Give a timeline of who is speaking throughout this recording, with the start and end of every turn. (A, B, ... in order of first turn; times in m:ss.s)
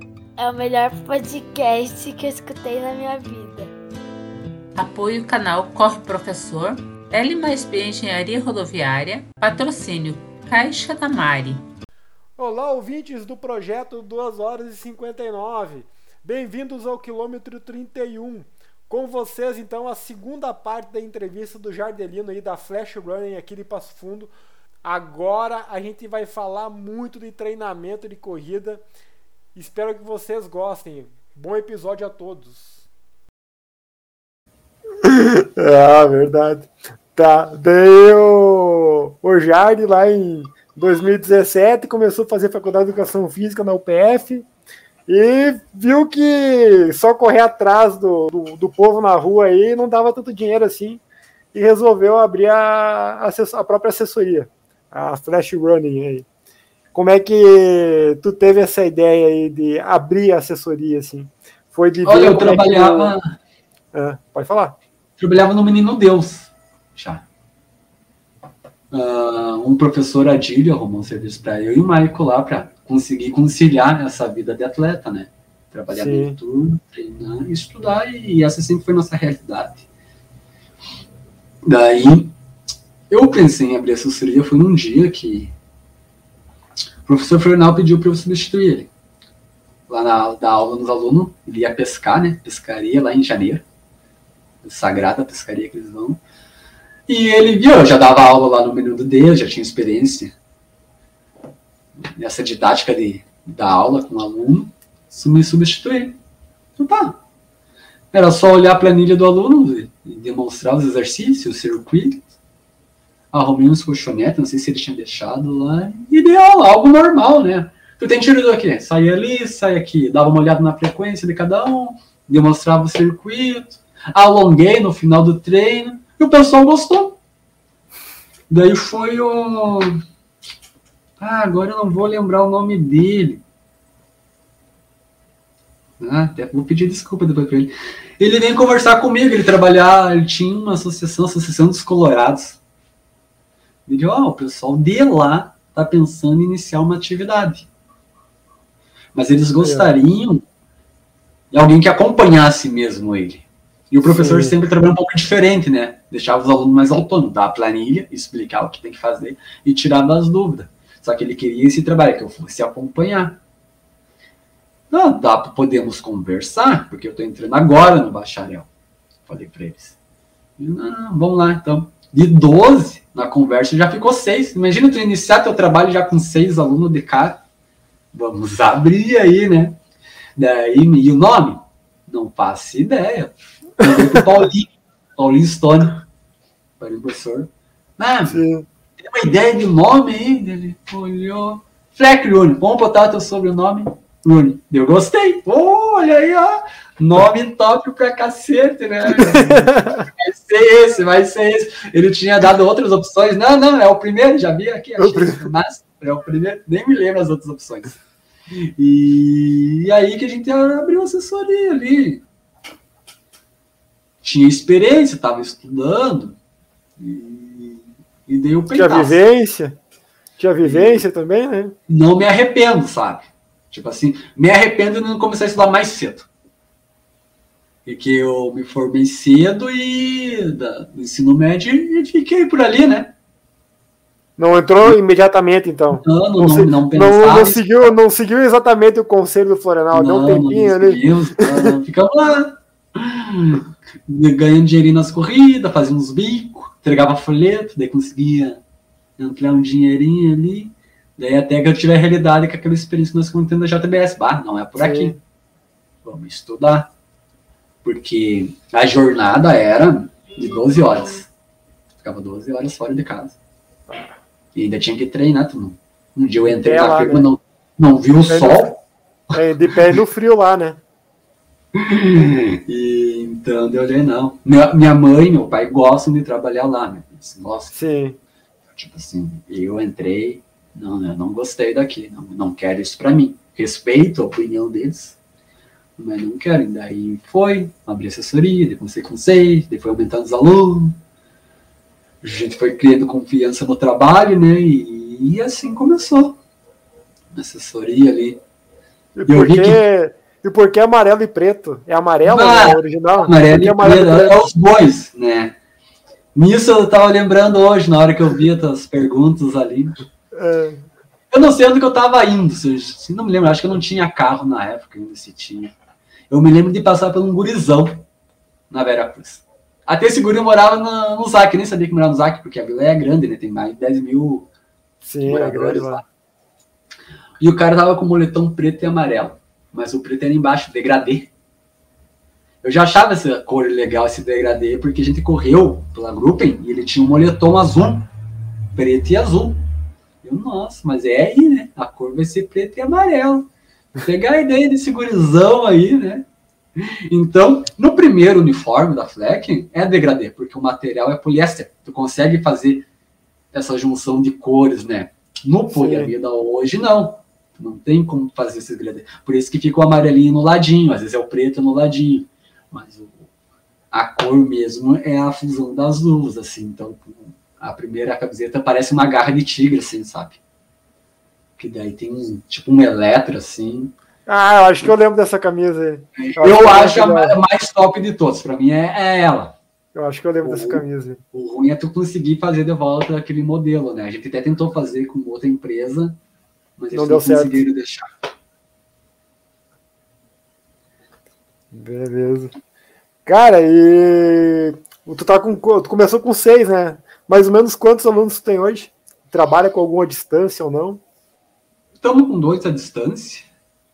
0:00.4-0:03.7 A
0:04.7-0:11.6 B
0:12.4-0:24.3 C
0:24.8-0:28.8 C
0:29.5-0:32.8 C
0:35.0-0:44.4 C
0:45.1-0:51.0 C
0:51.5-0:56.2 C
0:56.9-1:03.1 C
1:02.0-1:03.3 D
1:03.9-1:04.8 C
1:05.2-1:07.2 D
1:08.9-1:19.8 D
1:15.9-1:16.4 C
1:21.6-1:22.4 D
1:23.1-1:25.5 D
1:27.0-1:28.9 D
1:29.9-1:33.6 D
1:34.6-1:36.2 D
1:37.1-1:40.3 D
1:42.0-1:46.2 D
1:46.8-1:47.2 D
1:48.1-1:52.2 D
1:53.3-2:07.2 D
2:08.5-2:10.0 D
2:11.2-2:13.4 D
2:16.0-2:22.6 D
2:23.8-2:27.7 D
2:29.1-2:30.4 D
2:29.6-2:29.9 C
2:31.5-2:43.4 D
2:34.0-2:34.5 C
2:44.9-2:48.7 D
2:49.3-2:50.0 D
2:50.6-2:57.4 D
2:58.1-2:59.8 D
3:00.4-3:06.0 D
3:03.8-3:04.2 C
3:06.8-3:08.4 D
3:08.3-3:08.6 C
3:09.0-3:28.0 D
3:19.2-3:20.0 C
3:25.0-3:25.5 C
3:28.5-3:32.2 D
3:34.2-3:36.4 D
3:37.0-3:39.2 D
3:38.7-3:39.8 C
3:40.4-3:41.8 C
3:40.6-3:41.0 D
3:41.9-3:46.3 D
3:47.8-3:53.1 D
3:54.4-4:01.7 C
3:56.0-3:57.9 D
3:59.9-4:08.6 D
4:09.2-4:15.2 D
4:14.8-4:15.2 C
4:16.0-4:16.9 D
4:17.8-4:21.3 D
4:22.0-4:23.4 D
4:24.5-4:28.8 D
4:26.5-4:27.3 C
4:28.3-4:28.7 C
4:29.3-4:30.8 C
4:31.7-4:37.8 D
4:37.7-4:38.2 C
4:38.7-4:45.2 D
4:46.0-4:51.0 D
4:52.2-4:56.4 D
4:57.3-4:58.4 D
4:59.1-5:04.4 C
4:59.3-4:59.8 D
5:02.2-5:05.6 D
5:06.3-5:10.0 D
5:10.3-5:10.8 C
5:11.3-5:15.7 D
5:16.3-5:18.0 D
5:18.7-5:24.5 D
5:25.0-5:26.0 C
5:25.2-5:26.0 D
5:27.4-5:31.3 D
5:32.6-5:38.1 D
5:38.7-5:39.6 D
5:40.2-5:52.9 D
5:53.5-6:03.3 D
5:55.7-5:56.1 C
6:03.9-6:10.4 D
6:11.6-6:13.9 D
6:14.2-6:17.4 C
6:16.1-6:19.6 D
6:19.9-6:21.2 C
6:20.4-6:26.2 D
6:26.8-6:28.1 D
6:26.9-6:27.6 C
6:31.7-6:32.5 C
6:33.2-6:41.0 C
6:42.0-6:43.5 D